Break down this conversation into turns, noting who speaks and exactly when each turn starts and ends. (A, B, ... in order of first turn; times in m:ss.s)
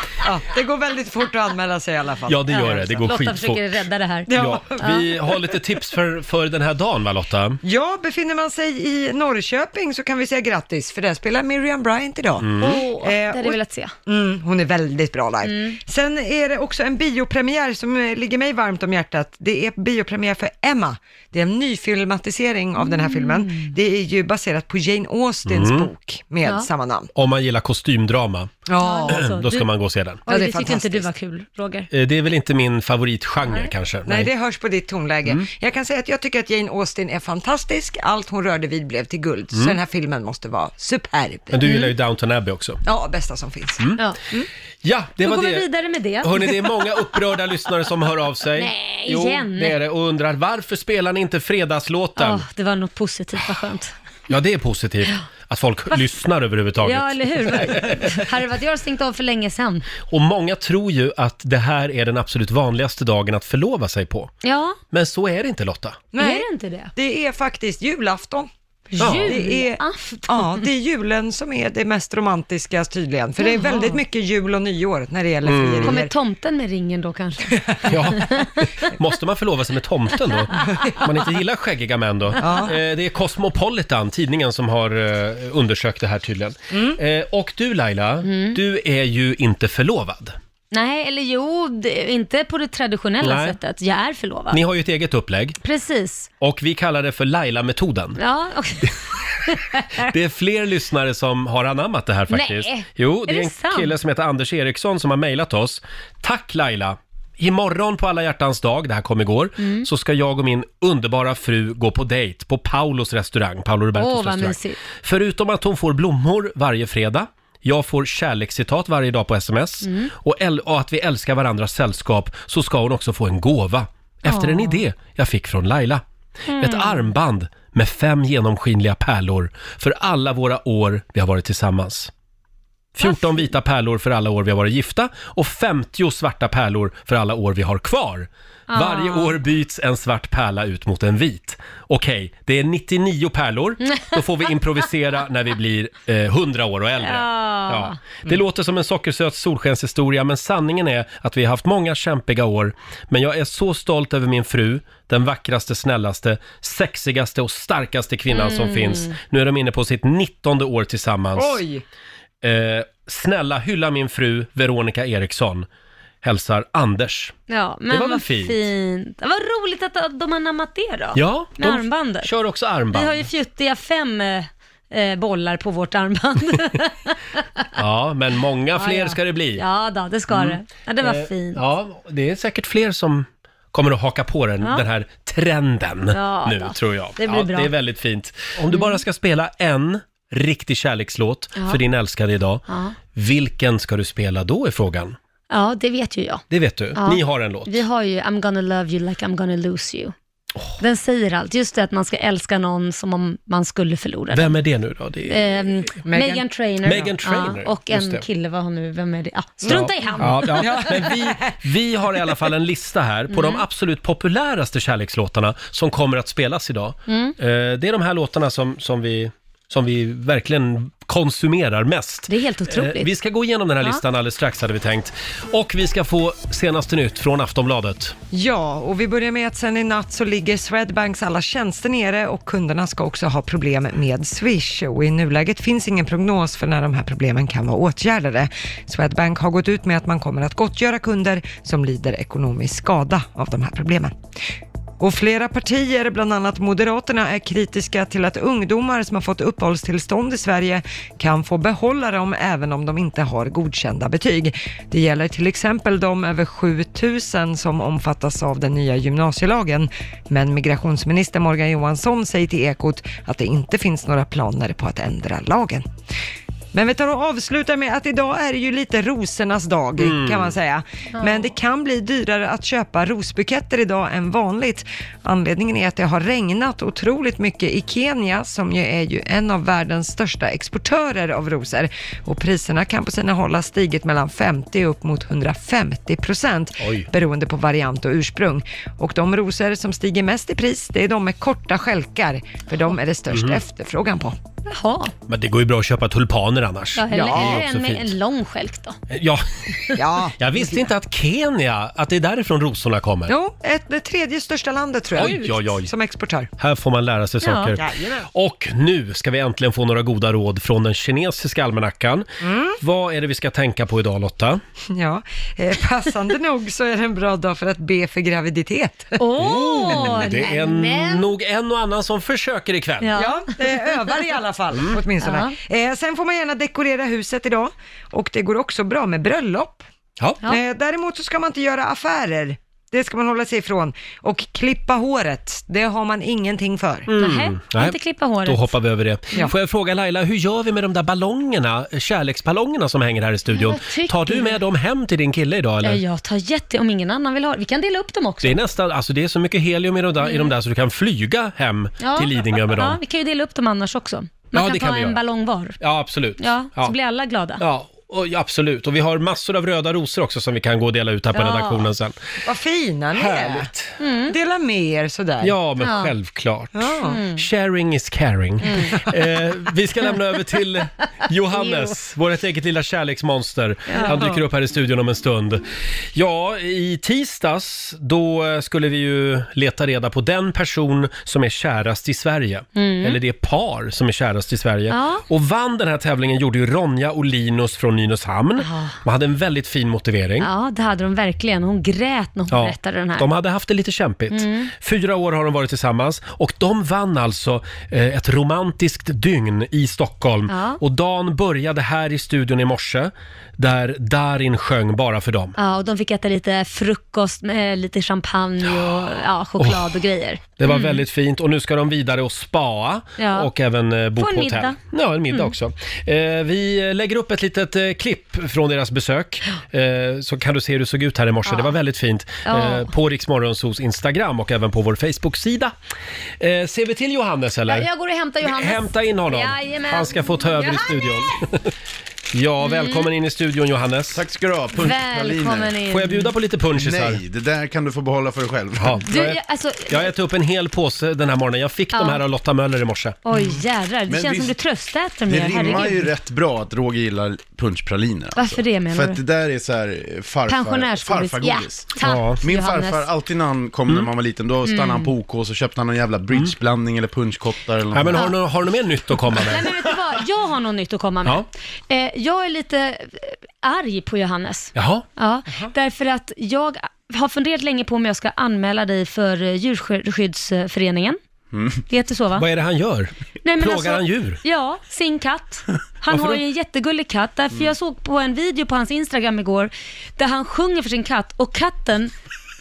0:00.2-0:03.1 A
0:02.3-0:03.6 B
0:02.6-0:05.0 C
0:04.3-0:05.0 A
0:04.3-0:07.6 B
0:07.6-0:27.1 A
0:12.4-0:12.8 B
0:12.6-0:13.9 C
0:15.5-0:15.8 C
0:22.8-0:23.7 C
0:25.5-0:25.9 B
0:27.2-0:28.5 B
0:28.7-0:29.3 A
0:28.8-0:29.7 C
0:29.1-0:30.2 B
0:30.3-0:31.9 C
0:30.3-0:31.1 A
0:31.9-0:34.3 B
0:34.1-0:41.7 A
0:39.5-0:39.8 B
0:41.5-0:42.8 B
0:41.6-0:41.9 C
0:42.8-0:43.8 A
0:44.8-0:45.7 B
0:45.2-0:47.0 C
0:46.2-0:52.4 B
0:48.6-0:49.8 C
0:52.2-0:53.9 C
0:54.3-0:58.2 B
0:56.8-0:59.9 C
1:00.1-1:04.3 B
1:04.4-1:04.8 C
1:04.9-1:06.0 B
1:06.1-1:08.5 A
1:06.2-1:06.9 C
1:08.9-1:10.6 C
1:09.0-1:09.4 B
1:09.1-1:16.1 A
1:13.4-1:14.0 C
1:15.4-1:16.0 B
1:15.8-1:18.5 C
1:17.9-1:30.4 B
1:20.7-1:20.9 A
1:22.4-1:22.8 A
1:26.7-1:27.0 A
1:28.2-1:28.6 C
1:30.7-1:34.6 C
1:33.2-1:33.6 B
1:34.5-1:35.6 B
1:35.6-1:36.3 C
1:36.4-1:38.2 B
1:38.2-1:39.0 C
1:39.5-1:40.1 C
1:40.0-2:06.0 B
1:42.3-1:43.9 C
1:49.6-1:49.9 C
1:54.0-1:54.8 C
1:59.8-2:00.1 C
2:04.2-2:04.8 C
2:06.5-2:07.1 C
2:06.6-2:12.1 B
2:13.0-2:41.6 B
2:13.0-2:13.5 C
2:18.7-2:19.4 C
2:23.8-2:24.2 C
2:27.0-2:28.0 C
2:38.3-2:39.2 C
2:41.4-2:41.8 A
2:42.4-2:45.7 B
2:46.2-2:47.4 B
2:47.5-2:52.3 C
2:47.9-2:48.6 B
2:51.2-2:53.3 B
2:52.9-2:57.6 C
2:57.8-2:59.6 B
2:58.7-3:01.6 C
3:00.3-3:12.6 B
3:06.1-3:07.7 C
3:08.7-3:09.0 C
3:11.6-3:11.8 C
3:12.7-3:13.0 C
3:13.2-3:15.2 B
3:15.5-3:16.4 C
3:16.5-3:17.8 B
3:17.0-3:20.2 C
3:20.8-3:24.6 C
3:24.3-3:25.6 B
3:25.3-3:30.9 C
3:26.0-3:27.1 A
3:26.8-3:28.3 B
3:29.6-3:31.6 A
3:29.7-3:48.2 B
3:33.3-3:33.6 C
3:37.1-3:37.4 C
3:42.3-3:43.1 C
3:48.3-4:04.1 A
4:05.0-4:25.9 A
4:26.7-4:54.4 A
4:30.0-4:30.6 B
4:46.8-4:47.1 B
4:53.3-4:53.6 B
4:54.7-4:55.1 C
4:55.3-4:58.2 B
4:57.0-4:59.0 C
4:57.1-4:57.6 A
4:59.1-5:03.4 B
4:59.9-5:00.9 A
5:03.3-5:06.5 A
5:05.1-5:05.9 B
5:06.6-5:12.3 B
5:07.4-5:07.8 C
5:07.8-5:08.2 A
5:12.4-5:12.8 A
5:12.8-5:14.6 B
5:14.9-5:20.4 A
5:19.2-5:21.3 C
5:19.4-5:23.2 B
5:23.0-5:23.6 C
5:23.2-5:29.8 A
5:24.7-5:25.0 B
5:25.2-5:25.6 C
5:30.4-5:37.1 A
5:37.1-5:46.0 B
5:37.2-5:38.7 C
5:43.5-5:44.6 C
5:45.8-5:48.6 C
5:48.4-5:53.0 B
5:50.2-5:50.5 C
5:52.0-5:55.8 C
5:54.5-5:55.2 B
5:55.8-5:56.9 B
5:56.4-5:57.6 C
5:57.6-6:02.2 B
6:01.3-6:01.9 C
6:02.4-6:03.7 A
6:03.1-6:04.0 B
6:04.0-6:04.4 C
6:04.3-6:05.6 A
6:05.4-6:30.5 B
6:05.8-6:06.1 C
6:06.7-6:07.2 A
6:07.1-6:07.4 C
6:11.5-6:11.9 C
6:13.9-6:14.2 C
6:14.0-6:14.4 A
6:22.8-6:23.2 C
6:24.9-6:25.2 C
6:28.6-6:29.0 C
6:30.4-6:33.3 C
6:32.5-6:45.6 B
6:34.3-6:34.7 C
6:40.5-6:40.8 C
6:45.6-6:51.0 C
6:48.7-6:49.0 B
6:49.6-7:05.7 B
6:53.2-6:53.5 C
6:54.2-6:54.8 C
7:01.5-7:01.8 C
7:02.5-7:02.9 C
7:06.4-7:07.9 B
7:07.7-7:11.2 C
7:08.4-7:11.6 B
7:12.3-7:14.2 B
7:12.6-7:13.1 C
7:14.1-7:15.7 D
7:14.8-7:16.3 C
7:15.9-7:17.2 B
7:16.8-7:19.0 D
7:18.8-7:23.2 B
7:19.1-7:20.1 C
7:21.9-7:22.2 C
7:23.3-7:26.1 C
7:24.1-7:24.6 D
7:25.3-7:38.2 D
7:28.4-7:29.2 C
7:30.5-7:33.0 C
7:32.0-7:32.4 B
7:34.6-7:35.1 C
7:37.9-7:39.7 B
7:39.4-7:51.2 C
7:44.8-7:45.1 B
7:51.5-7:51.8 D
7:51.9-7:52.5 C
7:52.4-7:54.4 B
7:53.4-8:02.1 C
7:56.1-7:56.4 B